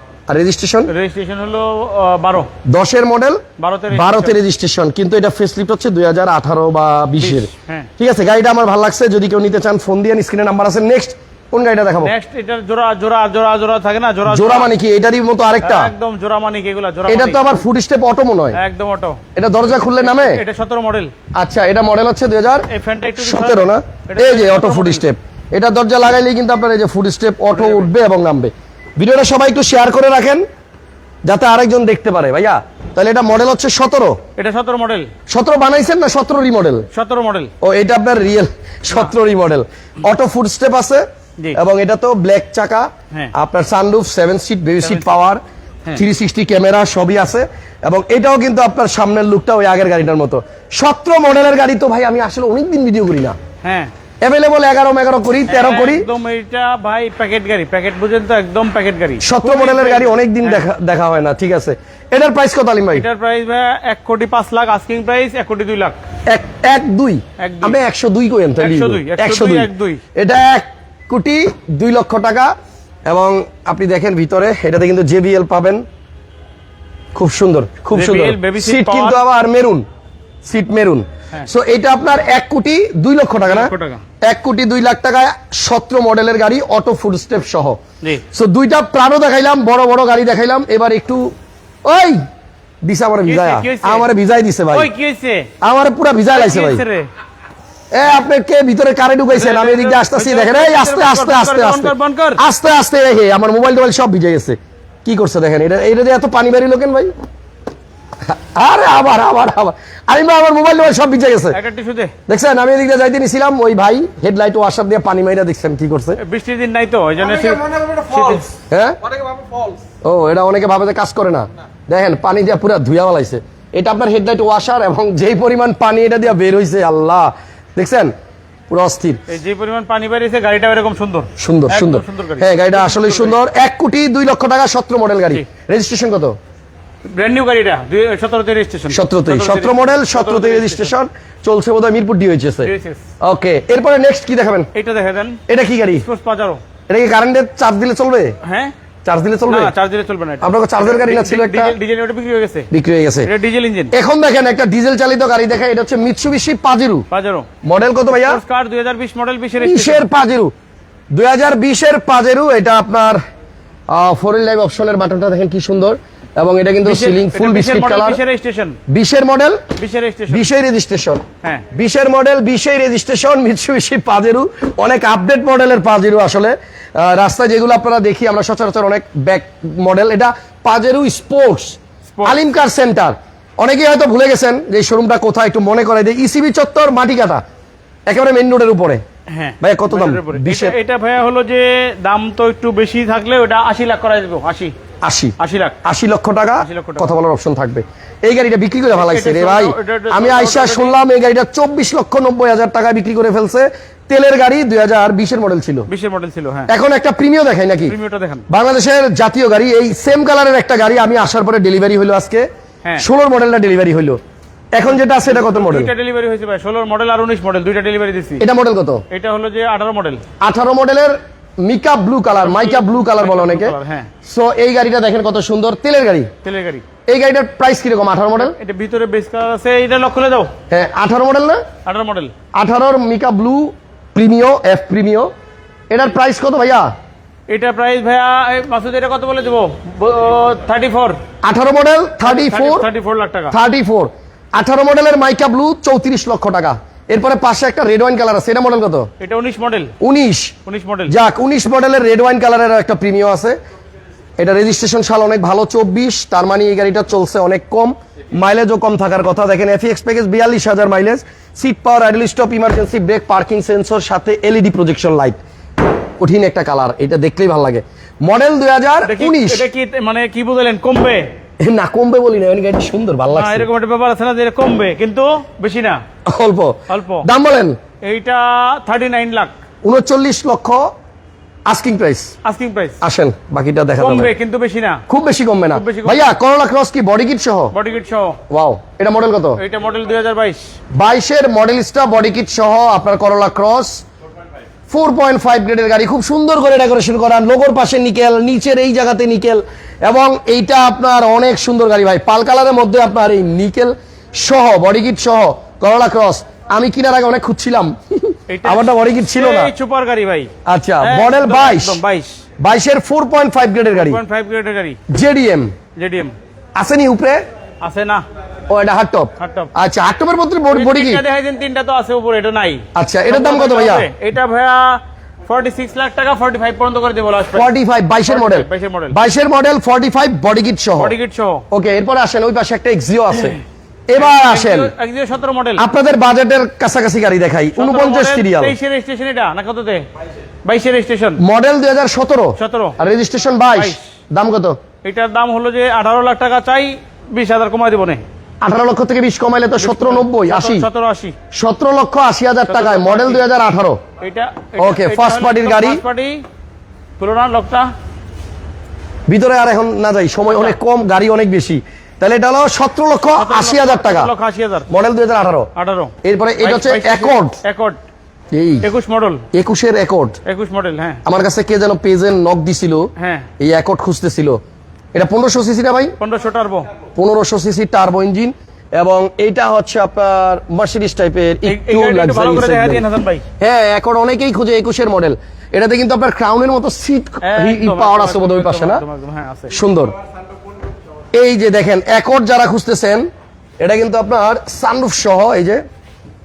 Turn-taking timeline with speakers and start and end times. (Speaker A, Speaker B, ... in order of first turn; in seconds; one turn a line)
Speaker A: 0.3-0.9
Speaker B: 0.9-2.5
Speaker A: 2.6-12.1
Speaker B: 3.6-4.4
Speaker B: 7.2-7.9
Speaker B: 12.0-14.7
Speaker A: 14.3-15.9
Speaker B: 15.6-17.5
Speaker A: 17.1-18.6
Speaker B: 18.5-19.2
Speaker A: 19.4-20.4
Speaker B: 20.0-21.1
Speaker A: 21.4-30.4
Speaker B: 22.7-25.0
Speaker B: 27.5-27.9
Speaker A: 31.2-34.2
Speaker B: 34.4-35.1
Speaker A: 35.3-36.9
Speaker B: 36.9-37.5
Speaker A: 37.6-41.0
Speaker A: 41.5-45.4
Speaker B: 44.8-45.2
Speaker A: 46.0-53.4
Speaker B: 53.6-53.9
Speaker A: 54.2-56.1
Speaker B: 55.5-60.6
Speaker A: 59.2-63.1
Speaker B: 62.9-66.0
Speaker A: 66.3-72.5
Speaker B: 67.4-67.8
Speaker B: 68.6-70.0
Speaker A: 73.1-75.8
Speaker A: 77.1-79.8
Speaker B: 77.9-79.2
Speaker A: 80.5-87.8
Speaker B: 83.5-84.0
Speaker A: 88.3-91.3
Speaker A: 91.8-92.2
Speaker A: 92.8-94.9
Speaker B: 93.3-94.1
Speaker B: 94.7-95.5
Speaker A: 95.6-96.8
Speaker B: 96.3-97.1
Speaker A: 97.9-107.1
Speaker B: 99.3-102.4
Speaker A: 108.2-111.6
Speaker B: 111.5-112.1
Speaker A: 112.3-116.2
Speaker B: 116.2-118.5
Speaker C: 117.2-119.8
Speaker A: 118.7-119.0
Speaker A: 120.0-128.1
Speaker A: 128.7-129.2
Speaker B: 129.3-133.4
Speaker A: 131.4-136.4
Speaker B: 137.1-140.9
Speaker A: 138.9-144.7
Speaker B: 142.6-143.1
Speaker B: 144.7-145.4
Speaker A: 145.5-146.1
Speaker B: 146.0-146.6
Speaker A: 146.9-148.4
Speaker B: 148.4-148.7
Speaker A: 149.0-149.7
Speaker B: 149.5-152.7
Speaker A: 150.4-151.8
Speaker A: 152.7-153.3
Speaker B: 153.2-153.9
Speaker A: 153.9-157.1
Speaker B: 157.1-157.5
Speaker A: 157.6-158.4
Speaker B: 158.1-160.1
Speaker A: 159.6-160.5
Speaker A: 161.1-163.2
Speaker A: 163.9-168.2
Speaker B: 166.8-168.8
Speaker A: 168.9-169.6
Speaker B: 169.8-170.5
Speaker A: 170.3-187.4
Speaker B: 182.1-182.4
Speaker A: 188.1-189.0
Speaker B: 189.3-194.7
Speaker A: 189.6-190.8
Speaker A: 195.0-205.9
Speaker B: 195.4-195.8
Speaker B: 196.6-197.1
Speaker B: 198.9-201.0
Speaker B: 205.9-206.7
Speaker A: 206.7-207.9
Speaker B: 207.9-208.5
Speaker A: 208.5-212.5
Speaker A: 213.0-214.2
Speaker A: 214.7-215.9
Speaker B: 215.3-218.4
Speaker A: 218.4-219.0
Speaker B: 219.1-220.2
Speaker A: 220.4-226.3
Speaker B: 222.4-224.1
Speaker B: 226.4-226.8
Speaker A: 227.1-228.6
Speaker B: 228.4-230.5
Speaker A: 230.7-231.6
Speaker B: 231.9-232.3
Speaker A: 232.6-235.3
Speaker A: 235.9-236.9
Speaker B: 237.5-241.2
Speaker A: 241.4-242.9
Speaker B: 242.2-243.6
Speaker A: 243.5-249.1
Speaker B: 249.2-249.9
Speaker A: 250.0-250.5
Speaker B: 250.7-251.2
Speaker A: 251.1-253.6
Speaker A: 254.4-265.4
Speaker A: 266.2-269.7
Speaker B: 269.1-271.3
Speaker A: 271.6-273.7
Speaker B: 273.3-276.0
Speaker A: 276.3-277.8
Speaker B: 276.9-277.3
Speaker B: 278.0-279.6
Speaker A: 279.8-280.9
Speaker A: 281.7-282.3
Speaker B: 282.4-283.0
Speaker A: 283.0-284.3
Speaker B: 284.0-285.0
Speaker A: 285.1-287.7
Speaker B: 285.7-286.3
Speaker B: 287.7-288.4
Speaker A: 288.5-289.6
Speaker B: 289.6-290.7
Speaker A: 290.9-294.1
Speaker A: 294.9-309.7
Speaker B: 308.5-312.4
Speaker A: 310.7-312.0
Speaker A: 312.6-314.2
Speaker B: 313.9-315.0
Speaker A: 315.1-315.7
Speaker B: 316.0-316.3
Speaker A: 316.8-317.4
Speaker B: 317.8-318.2
Speaker A: 318.7-321.2
Speaker B: 319.4-319.7
Speaker B: 320.7-327.7
Speaker A: 322.9-324.1
Speaker A: 327.5-331.1
Speaker B: 328.3-329.2
Speaker B: 331.0-331.6
Speaker A: 331.7-334.9
Speaker B: 334.2-335.9
Speaker A: 335.8-338.8
Speaker B: 337.8-340.1
Speaker B: 340.6-341.4
Speaker A: 341.4-344.8
Speaker B: 342.6-343.0
Speaker B: 343.7-344.1
Speaker B: 345.0-348.2
Speaker A: 348.6-350.9
Speaker B: 349.8-351.4
Speaker A: 351.5-354.0
Speaker B: 352.7-353.4
Speaker B: 354.2-356.4
Speaker A: 354.8-356.0
Speaker B: 357.2-357.9
Speaker A: 359.3-364.3
Speaker B: 363.4-364.9
Speaker A: 364.9-365.7
Speaker B: 365.8-368.0
Speaker A: 366.2-367.6
Speaker A: 368.5-368.9
Speaker B: 368.8-369.4
Speaker A: 369.5-370.4
Speaker B: 370.4-371.2
Speaker A: 371.2-373.1
Speaker B: 373.2-373.5
Speaker A: 373.6-374.6
Speaker A: 375.1-376.1
Speaker B: 376.2-376.9
Speaker A: 377.2-383.0
Speaker B: 381.7-383.4
Speaker A: 383.6-389.0
Speaker B: 387.4-389.8
Speaker A: 389.7-390.1
Speaker A: 391.3-393.3
Speaker A: 393.8-395.8